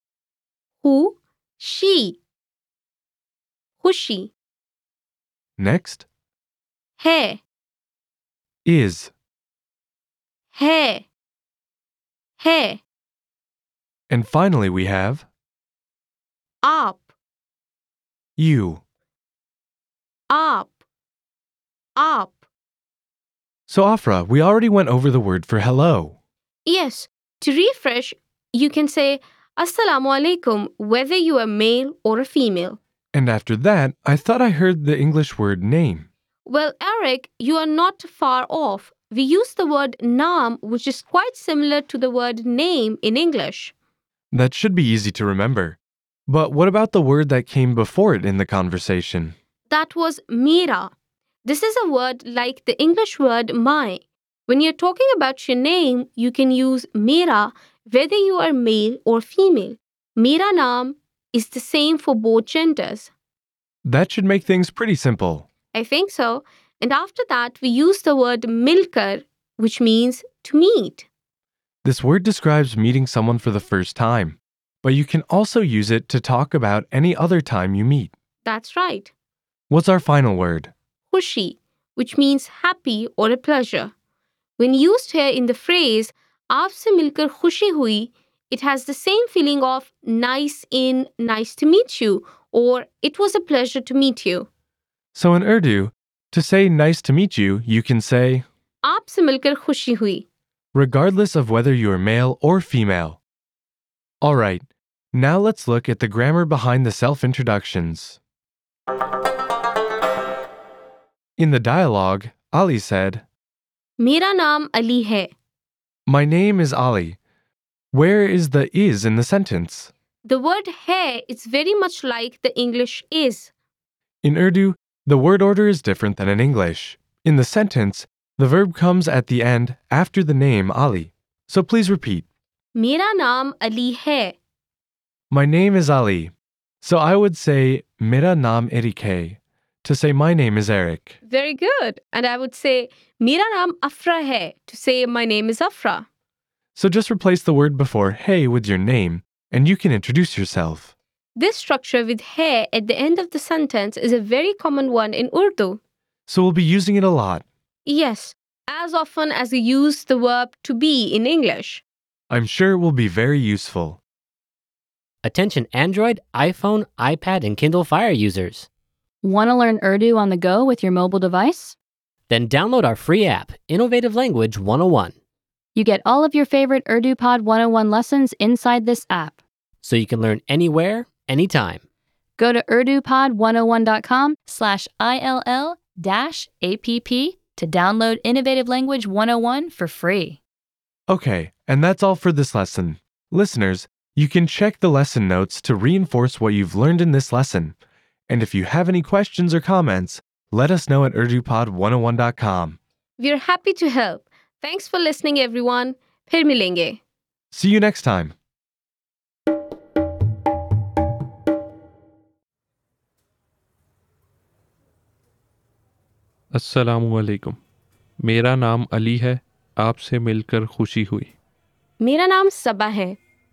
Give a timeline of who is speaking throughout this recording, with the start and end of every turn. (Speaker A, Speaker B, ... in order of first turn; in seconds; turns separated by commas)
Speaker A: 0.8-2.2, Speaker A: 3.8-4.3, Speaker B: 5.6-6.1, Speaker A: 7.0-7.4, Speaker B: 8.7-9.1, Speaker A: 10.5-11.1, Speaker A: 12.4-12.8, Speaker B: 14.1-15.3, Speaker A: 16.6-17.1, Speaker B: 18.4-18.8, Speaker A: 20.3-20.7, Speaker A: 22.0-22.4, Speaker B: 23.7-26.1, Speaker A: 26.7-32.8, Speaker B: 33.1-36.1, Speaker A: 36.5-43.7, Speaker B: 44.3-49.4, Speaker A: 49.7-50.9, Speaker A: 51.5-63.1, Speaker B: 63.9-65.5, Speaker A: 65.7-71.1, Speaker B: 71.8-78.1, Speaker A: 78.4-79.1, Speaker B: 79.7-80.7, Speaker A: 81.1-83.9, Speaker A: 84.6-94.5, Speaker B: 95.1-98.5, Speaker A: 98.8-100.3, Speaker B: 100.7-103.2, Speaker B: 104.2-108.2, Speaker B: 111.4-113.2, Speaker A: 114.0-115.3, Speaker B: 116.1-117.2, Speaker B: 117.9-119.9, Speaker A: 120.3-123.5, Speaker B: 124.2-132.2, Speaker A: 132.8-134.4, Speaker B: 135.3-141.2, Speaker A: 141.3-146.1, Speaker B: 146.8-150.9, Speaker A: 151.4-155.8, Speaker B: 156.3-157.4, Speaker A: 157.9-161.8, Speaker B: 162.3-164.0, Speaker C: 165.2-168.7, Speaker D: 169.2-171.8, Speaker C: 172.3-175.2, Speaker D: 175.8-179.4, Speaker C: 179.8-181.8, Speaker D: 182.4-190.4, Speaker B: 191.1-197.8, Speaker B: 198.3-202.8, Speaker A: 203.2-207.0, Speaker B: 207.5-208.3, Speaker E: 216.5-217.6, Speaker E: 218.2-221.3, Speaker A: 222.0-223.2